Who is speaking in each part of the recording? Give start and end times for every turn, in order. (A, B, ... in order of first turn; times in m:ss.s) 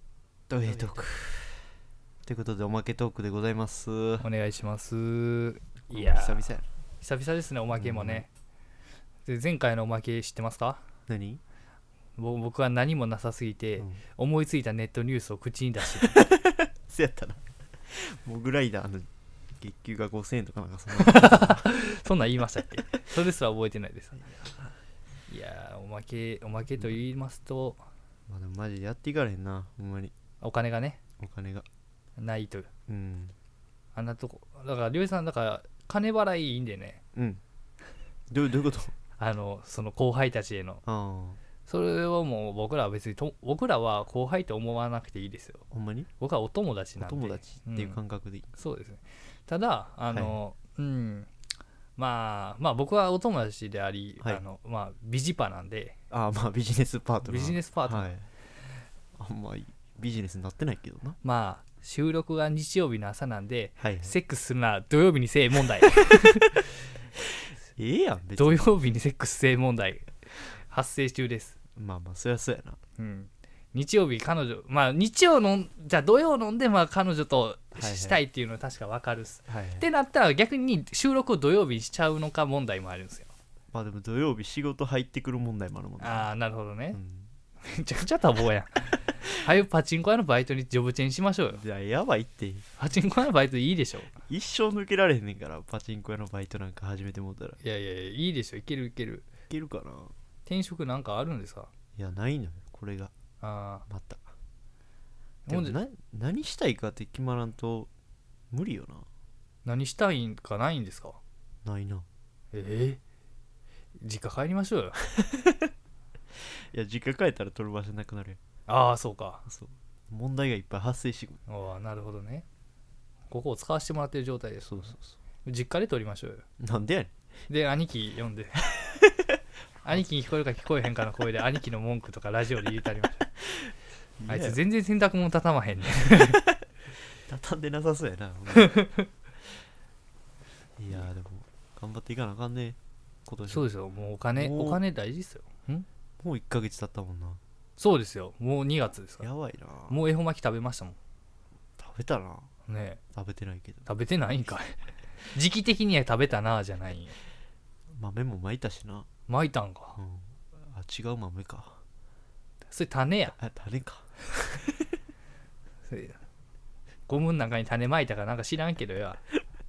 0:00.5-0:01.6 A
0:00.7-0:01.0 B
0:02.2-0:04.3 A
0:04.2-0:08.3 B
0:05.9-0:06.7 A
0:07.8-0:08.2 A
0:09.3-0:10.8 B
0:11.1-0:11.4 A
0:12.2-0:16.2 B
0:16.1-0:19.1 A
0:19.6-0:21.7 A
0:21.0-0:24.2 B
0:24.2-0:24.7 A
0:25.3-0:27.8 B
0:28.3-0:30.1 A
0:30.4-0:31.0 B
0:31.2-0:31.7 A
0:32.2-0:32.7 B
0:32.9-0:33.3 A
0:34.0-0:37.0 B
0:37.2-0:37.4 A
0:38.3-0:38.9 A
0:39.2-0:40.8 B
0:40.9-0:41.4 A
0:41.7-0:45.7 B
0:45.7-0:46.1 A
0:46.2-0:48.0 B
0:47.0-0:48.5 A
0:48.5-0:51.3 B
0:50.1-0:50.4 A
0:52.0-0:56.0 B
0:56.1-0:58.3 A
0:57.2-0:58.1 B
0:59.2-1:01.2 A
1:01.2-1:06.7 B
1:03.8-1:04.2 A
1:07.8-1:08.7 A
1:08.4-1:11.6 B
1:11.8-1:12.8 A
1:13.0-1:23.3 B
1:17.8-1:18.2 A
1:19.5-1:19.9 A
1:23.7-1:26.3 A
1:26.0-1:27.0 B
1:26.9-1:27.3 A
1:27.6-1:31.6 B
1:31.5-1:32.7 A
1:32.8-1:34.1 B
1:34.2-1:37.6 A
1:37.6-1:39.2 B
1:39.5-1:40.1 A
1:40.5-1:41.7 B
1:42.0-1:43.1 A
1:43.4-1:43.8 B
1:43.9-1:44.3 A
1:45.5-1:45.8 B
1:45.5-1:47.9 A
1:48.5-1:49.1 A
1:49.6-1:51.2 B
1:51.6-1:52.1 A
1:52.5-1:53.0 B
1:54.0-1:55.0 B
1:55.3-1:55.6 A
1:56.5-1:58.4 A
1:58.7-1:59.5 B
1:59.5-2:01.4 A
2:01.5-2:02.4 B
2:03.3-2:06.4 B
2:04.7-2:05.1 A
2:06.6-2:07.1 A
2:07.5-2:08.6 B
2:09.8-2:13.3 B
2:14.2-2:14.6 A
2:14.3-2:16.4 B
2:17.2-2:18.8 A
2:18.6-2:19.1 B
2:20.8-2:23.7 A
2:23.5-2:25.9 B
2:24.4-2:24.8 A
2:26.2-2:27.4 A
2:27.8-2:29.3 B
2:29.2-2:30.0 A
2:29.9-2:31.0 B
2:31.8-2:32.5 A
2:32.7-2:33.0 B
2:33.1-2:33.9 A
2:33.9-2:34.8 B
2:35.3-2:37.2 B
2:37.9-2:39.1 A
2:39.3-2:40.0 B
2:40.0-2:41.8 A
2:42.7-2:43.4 B
2:43.4-2:44.7 A
2:45.9-2:46.2 B
2:47.1-2:49.2 B